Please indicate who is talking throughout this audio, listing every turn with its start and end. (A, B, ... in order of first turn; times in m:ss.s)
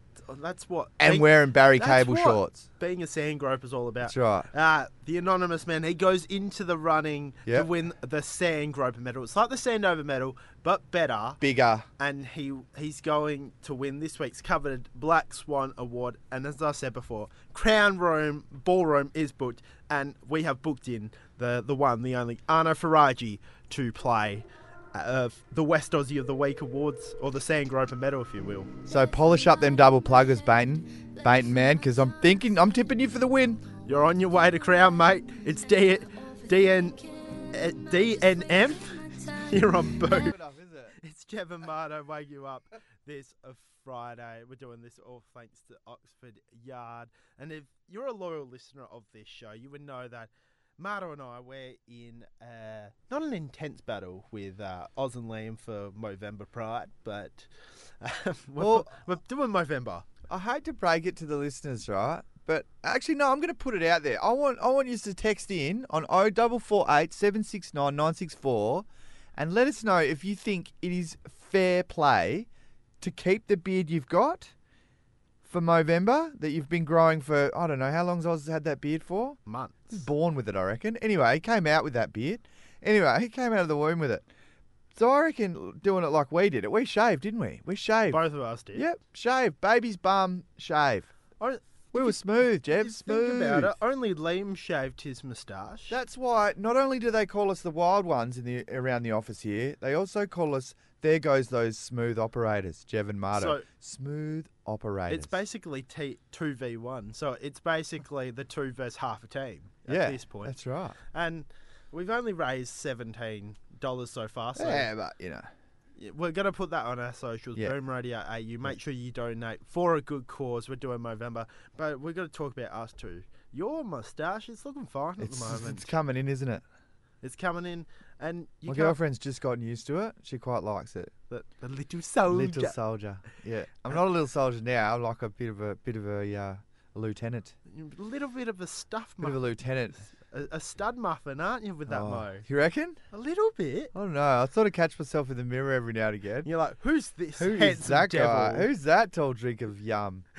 0:00.2-0:11.4 A
0:01.0-0:02.7 B
0:04.0-0:04.5 B
0:11.4-0:11.9 B
0:12.0-0:28.7 A
0:28.9-0:33.6 B
0:33.8-0:37.0 A
0:37.5-0:40.4 A
0:40.0-0:40.9 B
0:41.0-0:57.5 A
0:58.0-1:00.1 A
0:58.6-0:58.9 B
1:00.3-1:12.5 B
1:13.0-1:14.5 B
1:15.4-1:19.4 B
1:19.5-1:20.1 A
1:19.9-1:24.3 B
1:25.0-1:28.2 B
1:28.1-1:28.9 A
1:28.8-1:31.1 B
1:31.4-1:36.0 A
1:31.9-1:33.8 B
1:35.9-1:45.3 B
1:43.3-1:43.7 A
1:45.1-1:50.6 A
1:49.9-1:51.0 B
1:51.1-1:54.9 A
1:54.6-1:55.5 B
1:56.0-2:05.9 A
2:05.2-2:06.6 B
2:07.2-2:09.0 A
2:08.7-2:11.1 B
2:11.3-2:12.8 A
2:12.3-2:17.6 B
2:17.7-2:19.4 A
2:19.2-2:20.0 B
2:20.0-2:22.4 A
2:21.9-2:23.0 B
2:23.1-2:23.9 A
2:23.9-2:26.5 B
2:26.4-2:28.7 A
2:27.4-2:30.2 B